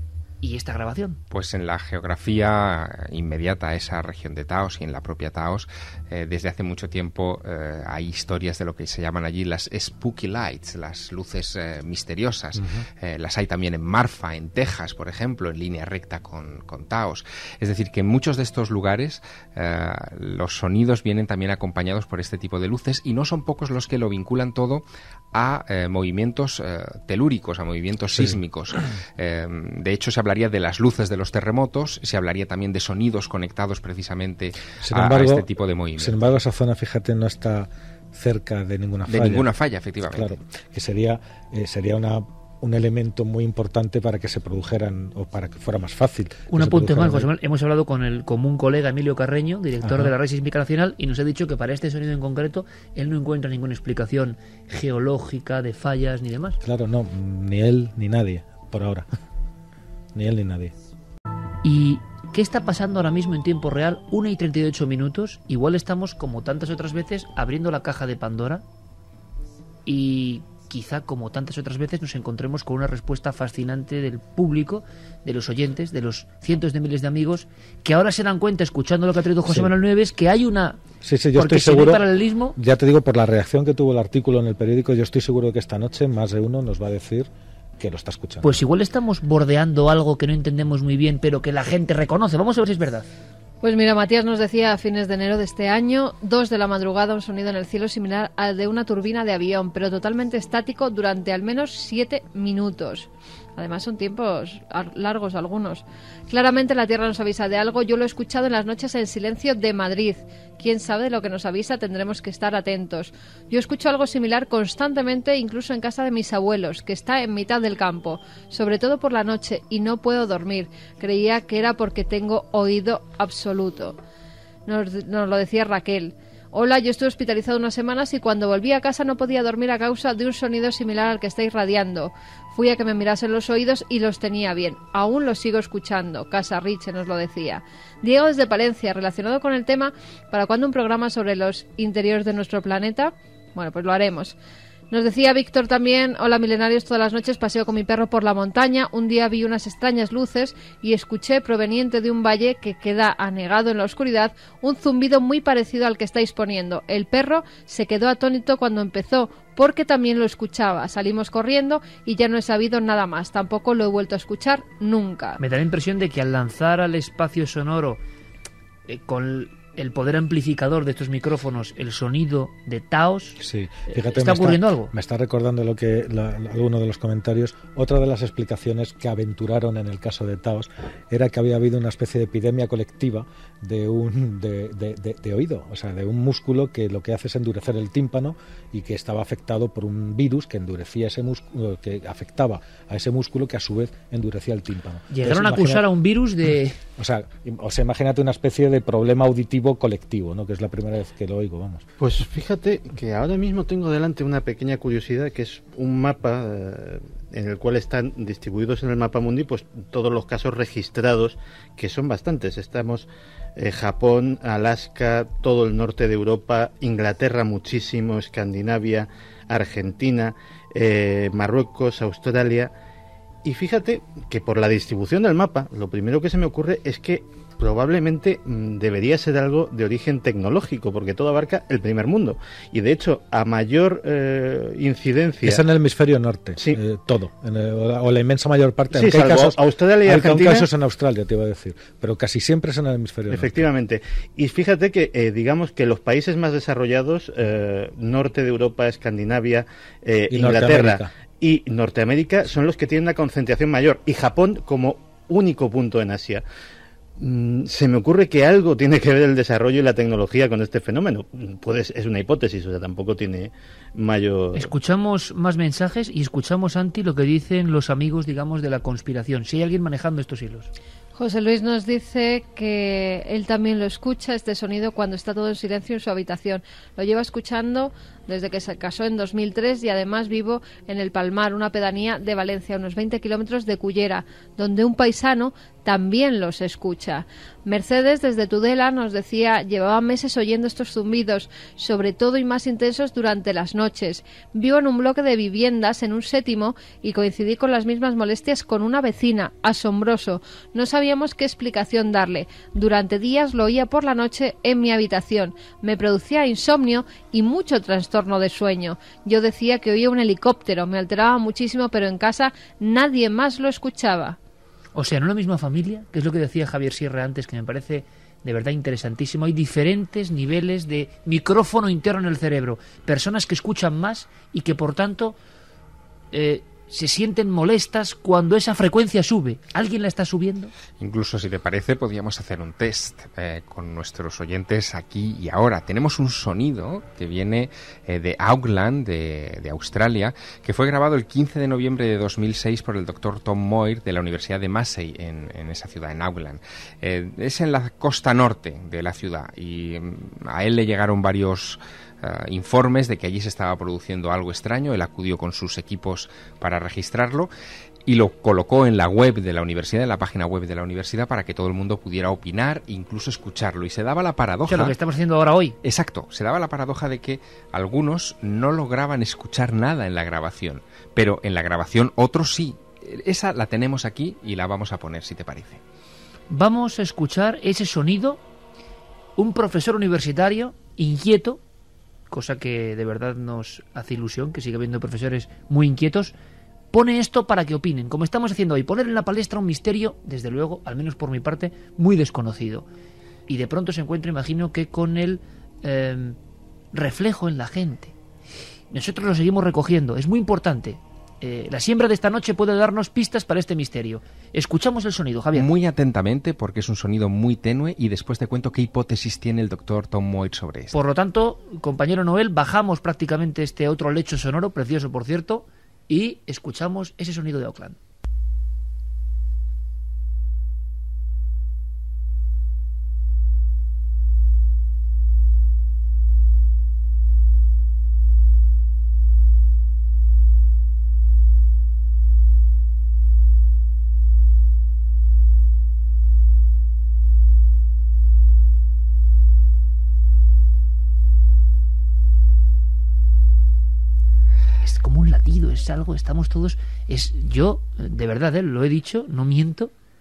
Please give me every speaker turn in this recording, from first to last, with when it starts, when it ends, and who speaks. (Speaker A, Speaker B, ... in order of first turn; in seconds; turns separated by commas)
Speaker A: 0.4-1.2, Speaker B: 1.3-36.2, Speaker C: 12.5-12.9, Speaker C: 28.1-28.4, Speaker C: 34.8-39.5, Speaker B: 39.1-40.4, Speaker C: 40.0-47.3, Speaker A: 46.5-56.6, Speaker C: 49.8-50.1, Speaker C: 56.6-59.1, Speaker C: 60.1-60.7, Speaker A: 61.6-68.6, Speaker A: 69.8-80.8, Speaker C: 79.5-79.7, Speaker C: 81.0-82.0, Speaker A: 81.3-82.6, Speaker C: 82.5-88.6, Speaker A: 88.4-93.1, Speaker D: 93.6-124.0, Speaker D: 124.7-144.3, Speaker D: 144.9-165.4, Speaker A: 165.4-168.0, Speaker A: 168.9-174.9, Speaker C: 173.4-195.8, Speaker A: 195.1-196.8, Speaker C: 197.0-201.8, Speaker E: 202.0-222.7, Speaker E: 223.4-235.6, Speaker C: 235.4-243.7, Speaker E: 238.9-240.7, Speaker E: 243.3-256.4, Speaker C: 250.3-251.1, Speaker E: 257.2-264.7, Speaker A: 264.5-270.7, Speaker D: 271.1-314.4, Speaker A: 314.9-325.4, Speaker A: 326.3-330.7, Speaker B: 331.0-357.5, Speaker B: 358.1-364.9, Speaker A: 364.6-365.8, Speaker B: 365.8-375.8, Speaker A: 376.5-378.4, Speaker A: 379.4-381.6, Speaker A: 382.3-386.3, Speaker A: 386.9-392.9, Speaker A: 393.5-396.4, Speaker A: 396.9-398.1, Speaker A: 398.9-405.7, Speaker B: 405.5-410.9, Speaker A: 410.9-418.0, Speaker A: 444.8-449.9